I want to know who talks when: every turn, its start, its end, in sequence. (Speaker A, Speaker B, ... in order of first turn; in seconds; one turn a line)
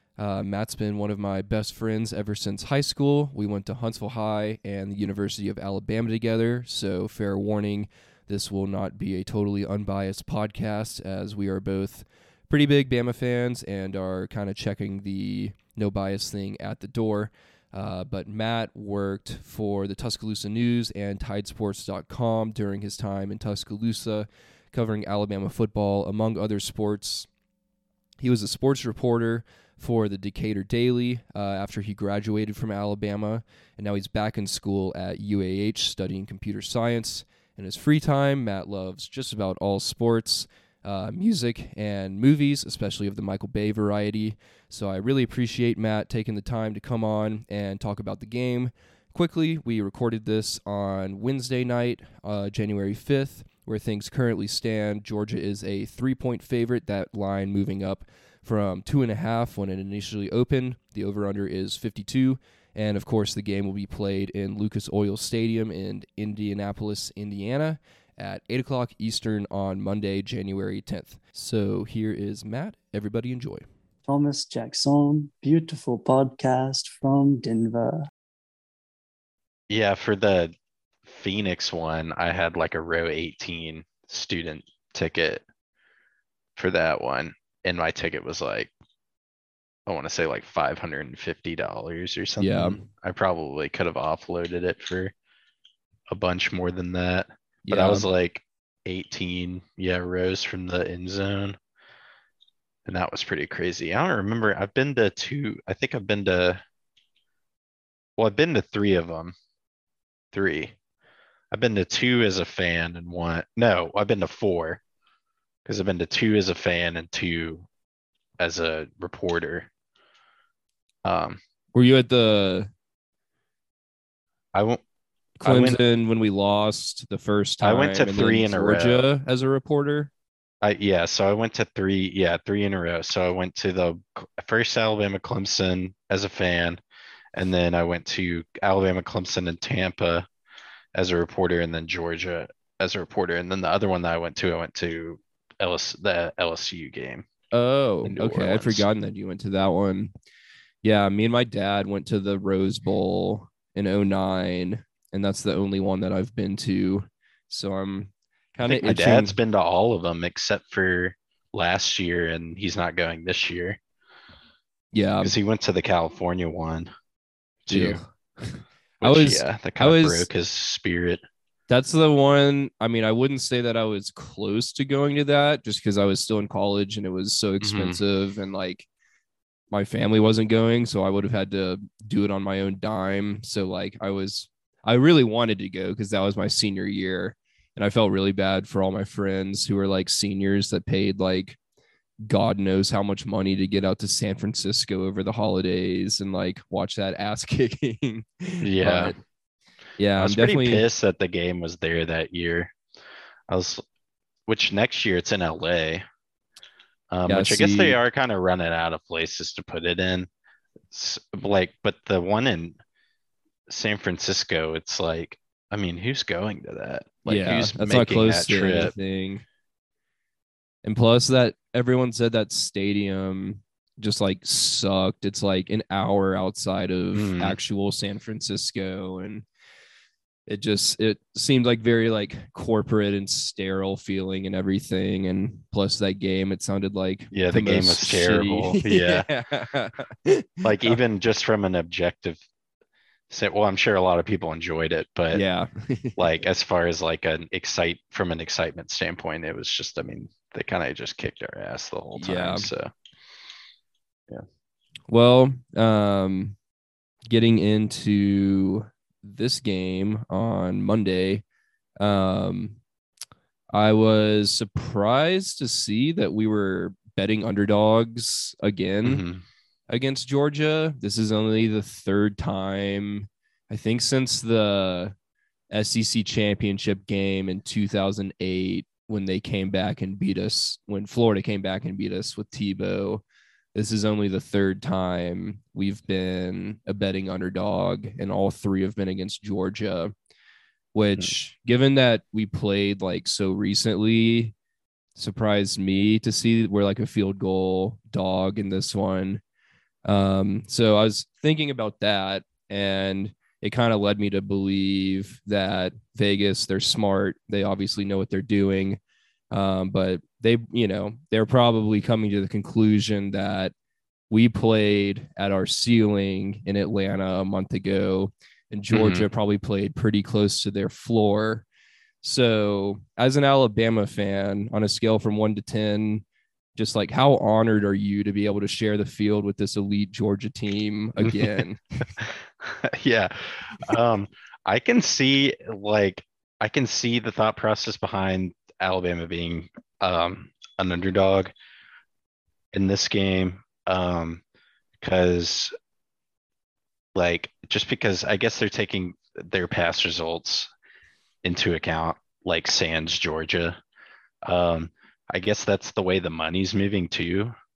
Speaker A: 0.2-27.3
Speaker A: 28.2-73.7
Speaker B: 74.1-78.0
Speaker C: 79.7-80.5
Speaker C: 81.0-85.4
Speaker C: 86.6-88.7
Speaker C: 89.9-95.1
Speaker A: 92.4-92.9
Speaker C: 96.1-101.6
Speaker A: 97.7-98.1
Speaker C: 102.9-106.6
Speaker C: 108.2-109.3
Speaker C: 110.3-110.8
Speaker C: 111.5-114.8
Speaker C: 115.7-117.7
Speaker C: 118.4-119.7
Speaker C: 121.0-121.4
Speaker A: 121.7-122.7
Speaker C: 124.5-124.8
Speaker A: 125.4-130.1
Speaker C: 125.4-125.8
Speaker C: 127.6-129.0
Speaker C: 130.6-136.8
Speaker C: 137.3-140.3
Speaker C: 140.9-147.3
Speaker A: 147.5-150.1
Speaker C: 148.1-148.8
Speaker A: 150.8-159.4
Speaker C: 158.7-163.8
Speaker A: 164.9-165.3
Speaker C: 165.2-166.9
Speaker C: 167.7-168.0
Speaker A: 167.7-170.3
Speaker C: 169.0-171.2
Speaker A: 171.7-178.9
Speaker C: 177.6-178.0
Speaker A: 179.7-191.6
Speaker A: 192.3-199.2
Speaker C: 198.6-199.1
Speaker A: 200.0-200.8
Speaker C: 200.2-202.8
Speaker C: 203.5-203.8
Speaker C: 204.5-206.0
Speaker C: 207.1-210.3
Speaker A: 207.3-208.0
Speaker C: 210.9-212.8
Speaker C: 213.7-218.9
Speaker A: 217.3-219.4
Speaker A: 220.8-229.4
Speaker C: 227.1-227.6
Speaker A: 230.5-241.0
Speaker C: 237.3-239.3
Speaker C: 240.6-242.4
Speaker C: 243.3-245.4
Speaker A: 245.3-246.3
Speaker C: 246.2-252.9
Speaker A: 252.2-252.7
Speaker A: 255.1-256.6
Speaker A: 257.3-261.4
Speaker A: 262.0-262.8
Speaker A: 263.7-269.2
Speaker C: 269.1-269.4
Speaker A: 269.9-275.1
Speaker A: 275.7-283.2
Speaker A: 283.8-290.1
Speaker A: 290.9-294.5
Speaker A: 295.2-299.4
Speaker A: 300.1-309.0
Speaker A: 309.5-313.7
Speaker A: 314.3-321.7
Speaker C: 318.9-319.2
Speaker A: 322.2-326.2
Speaker A: 326.8-332.1
Speaker C: 331.2-331.6
Speaker C: 332.2-341.5
Speaker C: 342.7-344.4
Speaker C: 345.0-345.7
Speaker C: 347.1-350.7
Speaker C: 351.4-353.8
Speaker C: 354.4-357.6